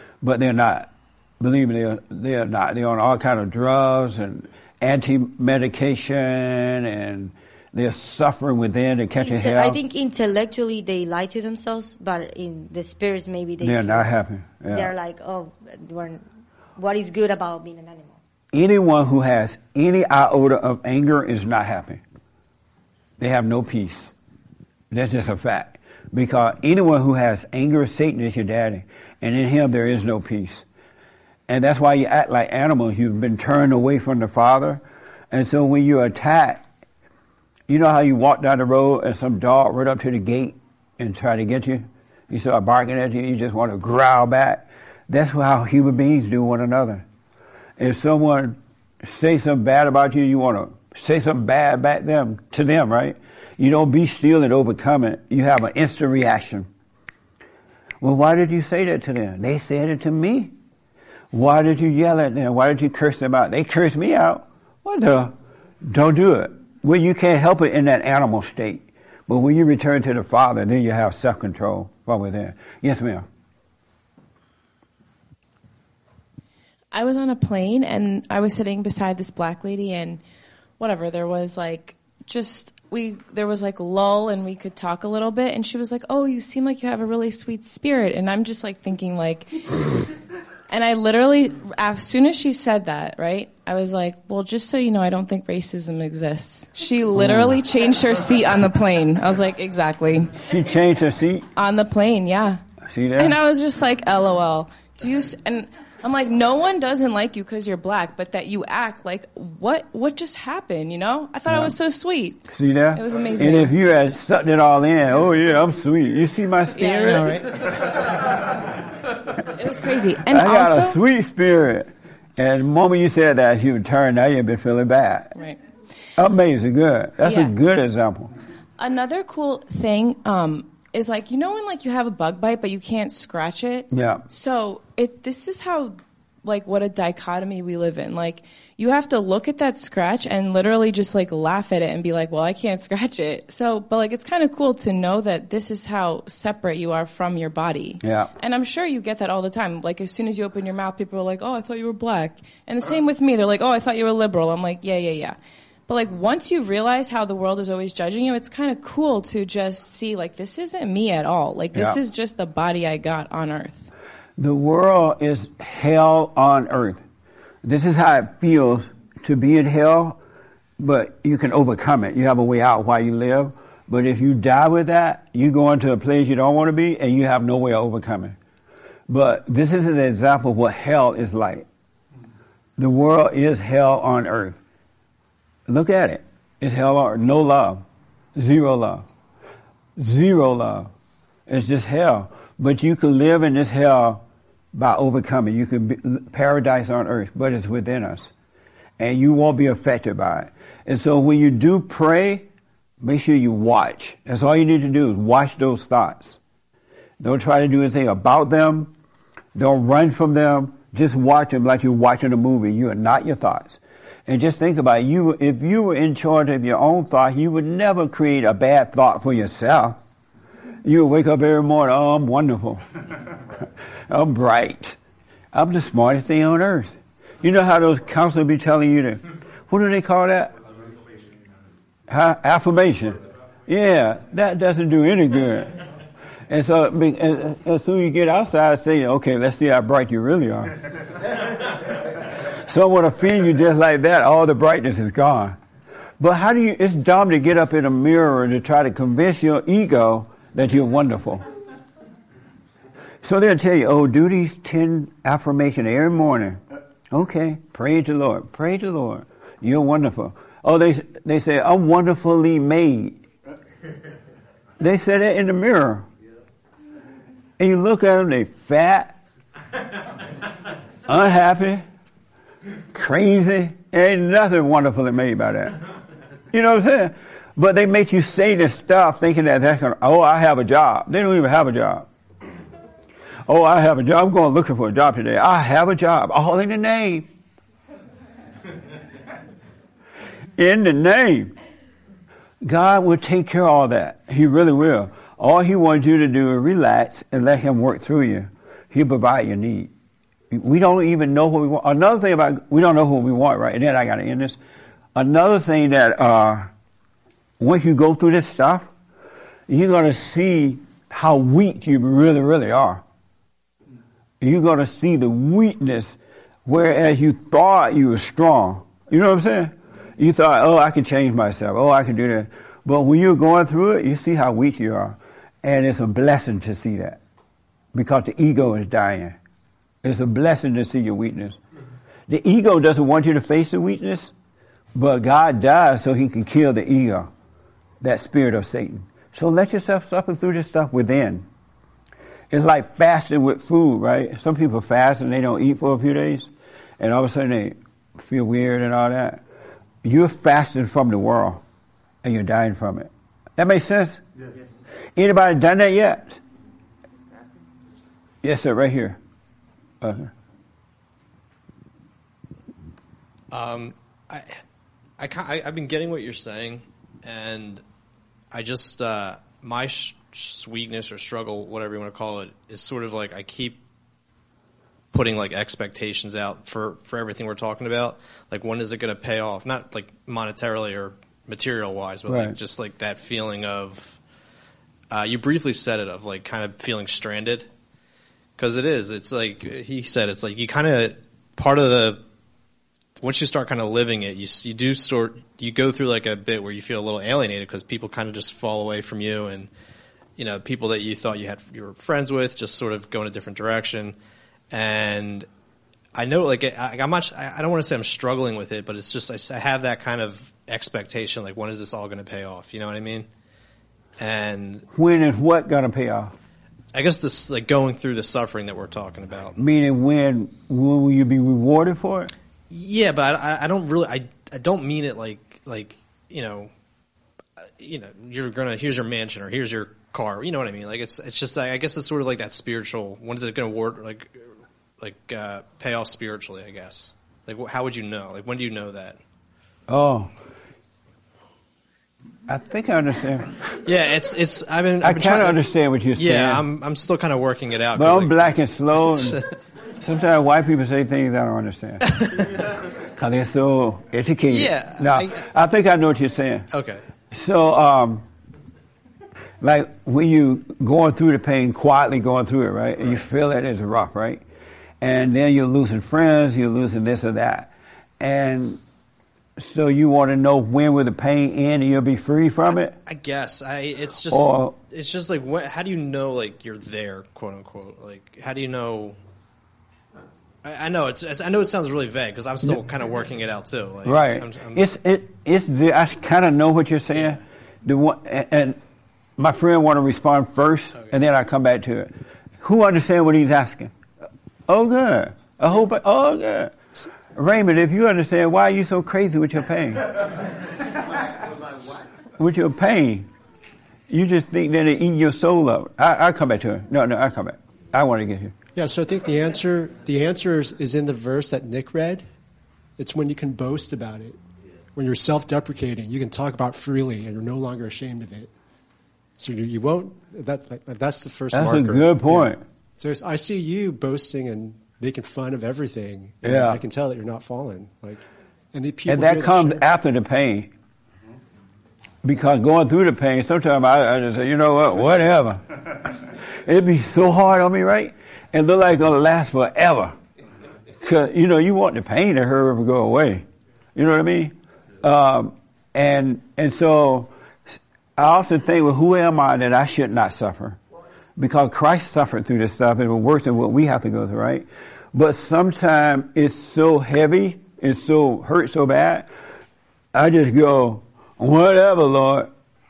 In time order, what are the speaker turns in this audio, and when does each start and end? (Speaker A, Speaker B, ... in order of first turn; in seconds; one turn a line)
Speaker A: 0.2-9.8
Speaker B: 9.2-14.1
Speaker A: 13.6-14.9
Speaker B: 14.7-16.2
Speaker B: 16.8-18.2
Speaker A: 18.5-22.0
Speaker A: 23.2-24.1
Speaker A: 24.9-30.6
Speaker A: 31.5-36.6
Speaker A: 37.7-47.0
Speaker A: 47.8-56.7
Speaker A: 58.0-60.5
Speaker A: 61.3-73.2
Speaker C: 76.9-80.2
Speaker C: 80.8-89.8
Speaker C: 90.7-100.3
Speaker A: 97.1-97.6
Speaker A: 100.4-101.5
Speaker C: 101.5-102.6
Speaker A: 102.8-103.4
Speaker C: 103.2-113.7
Speaker A: 111.5-111.8
Speaker A: 112.5-117.7
Speaker C: 116.7-117.9
Speaker C: 119.5-121.0
Speaker A: 120.3-125.3
Speaker C: 125.3-125.6
Speaker A: 126.2-128.3
Speaker C: 127.2-127.5
Speaker C: 128.8-163.9
Speaker A: 133.9-134.2
Speaker A: 148.0-148.3
Speaker A: 161.7-162.0
Speaker A: 164.4-167.0
Speaker A: 167.6-170.2
Speaker A: 170.8-178.3
Speaker A: 179.1-181.7
Speaker A: 182.8-184.6
Speaker A: 185.7-187.8
Speaker A: 188.3-189.1
Speaker A: 190.0-190.9
Speaker A: 191.5-194.2
Speaker A: 194.7-198.3
Speaker A: 199.0-202.4
Speaker A: 203.0-206.4
Speaker A: 207.2-208.9
Speaker A: 209.5-220.0
Speaker A: 220.8-222.9
Speaker A: 224.1-225.0
Speaker A: 225.5-230.5
Speaker A: 232.1-235.7
Speaker A: 236.5-240.8
Speaker A: 242.6-245.6
Speaker A: 246.2-251.4
Speaker A: 253.2-263.2
Speaker A: 264.8-266.1
Speaker A: 267.6-269.1
Speaker A: 271.1-271.8
Speaker A: 272.9-275.8
Speaker A: 276.5-282.1
Speaker A: 283.4-287.3
Speaker A: 290.6-291.5
Speaker A: 292.6-299.9
Speaker A: 300.5-304.6
Speaker A: 305.1-306.7
Speaker A: 307.6-308.9
Speaker A: 309.7-313.0
Speaker A: 314.4-327.2
Speaker A: 327.9-329.4
Speaker A: 330.0-331.6
Speaker A: 332.3-334.3
Speaker A: 334.9-337.3
Speaker A: 338.0-341.4
Speaker A: 342.5-346.5
Speaker A: 347.0-349.4
Speaker A: 350.0-351.6
Speaker A: 352.2-354.2
Speaker A: 355.1-356.4
Speaker A: 358.4-359.2
Speaker A: 360.0-360.3
Speaker D: 363.5-364.6
Speaker D: 365.2-367.8
Speaker D: 368.5-373.8
Speaker D: 375.1-384.2
Speaker A: 382.3-382.6
Speaker D: 385.1-387.7
Speaker D: 388.6-392.2
Speaker D: 393.2-399.7
Speaker D: 400.4-404.1
Speaker D: 404.7-405.5
Speaker D: 406.1-413.3
Speaker D: 414.2-414.9
Speaker A: 414.9-416.3
Speaker D: 416.9-419.6
Speaker A: 419.6-422.3
Speaker D: 422.7-426.7
Speaker D: 427.6-434.4
Speaker D: 435.0-439.2
Speaker A: 439.9-440.3
Speaker A: 442.5-443.6
Speaker D: 443.8-445.6
Speaker A: 445.0-446.6
Speaker D: 446.1-449.4
Speaker A: 447.9-449.4
Speaker A: 450.0-452.0
Speaker D: 452.2-452.5
Speaker A: 453.2-456.7
Speaker D: 454.5-455.4
Speaker D: 456.7-457.0
Speaker A: 457.3-458.2
Speaker A: 459.6-464.4
Speaker A: 465.0-468.8
Speaker A: 469.6-472.9
Speaker D: 472.7-479.2
Speaker A: 474.3-474.8
Speaker D: 480.6-484.8
Speaker A: 484.1-488.8
Speaker D: 487.1-487.4
Speaker A: 489.4-493.9
Speaker A: 494.7-496.8
Speaker A: 497.3-500.1
Speaker A: 502.4-503.3
Speaker A: 504.1-508.5
Speaker E: 508.7-512.2
Speaker E: 513.0-514.4
Speaker E: 514.9-518.5
Speaker E: 519.4-529.8
Speaker A: 521.5-522.6
Speaker A: 526.4-526.8
Speaker A: 529.0-530.7
Speaker A: 532.2-535.8
Speaker A: 536.6-540.1
Speaker A: 541.0-543.4
Speaker A: 544.0-547.3
Speaker A: 548.1-550.8
Speaker A: 551.4-559.3
Speaker A: 560.1-562.5